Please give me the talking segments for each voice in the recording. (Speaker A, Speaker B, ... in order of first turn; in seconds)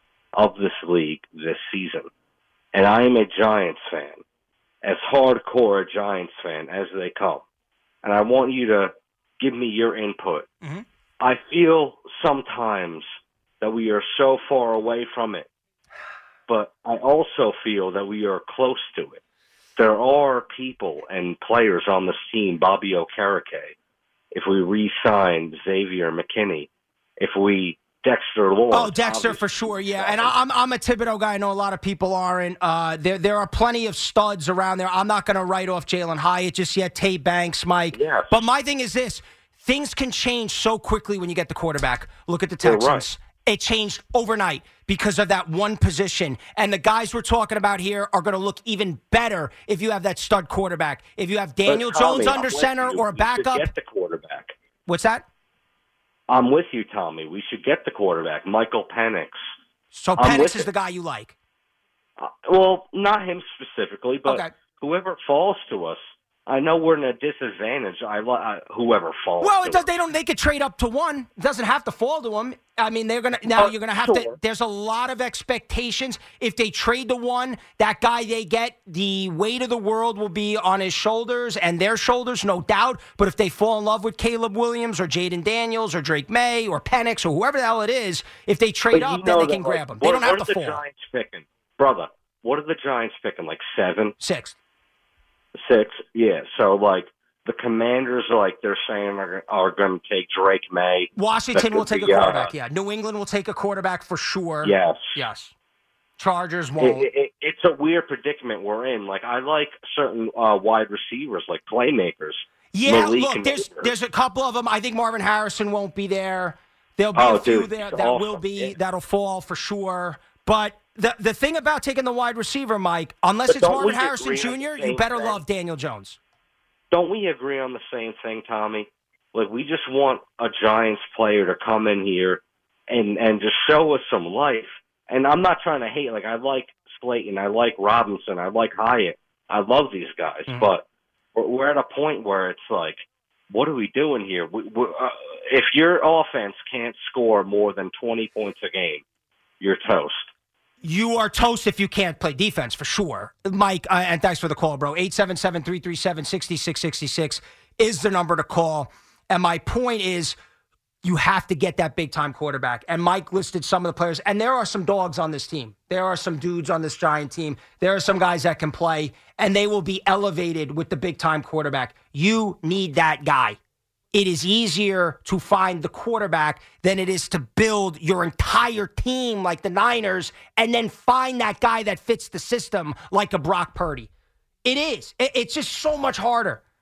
Speaker A: 0.3-2.1, 2.7-4.2, 4.8-7.4, 8.0-10.5, 11.2-13.1, 13.6-15.5, 16.5-19.2, 19.8-23.7, 24.3-30.3, 37.9-38.4, 42.6-43.1, 51.7-54.5, 56.3-59.4, 60.2-60.7, 62.2-69.8, 73.5-74.3, 88.9-94.1, 95.6-102.5, 104.6-105.2, 106.8-113.9, 117.1-118.7, 123.5-125.4, 126.9-140.8, 141.3-149.0, 149.6-150.3
Speaker B: 28.7-53.7, 54.9-55.2, 59.9-61.3, 64.2-64.5, 69.4-90.8, 94.2-94.6, 101.2-105.5, 106.2-107.0, 112.7-126.2, 150.8-160.4, 161.0-173.6, 174.1-184.1, 184.6-186.6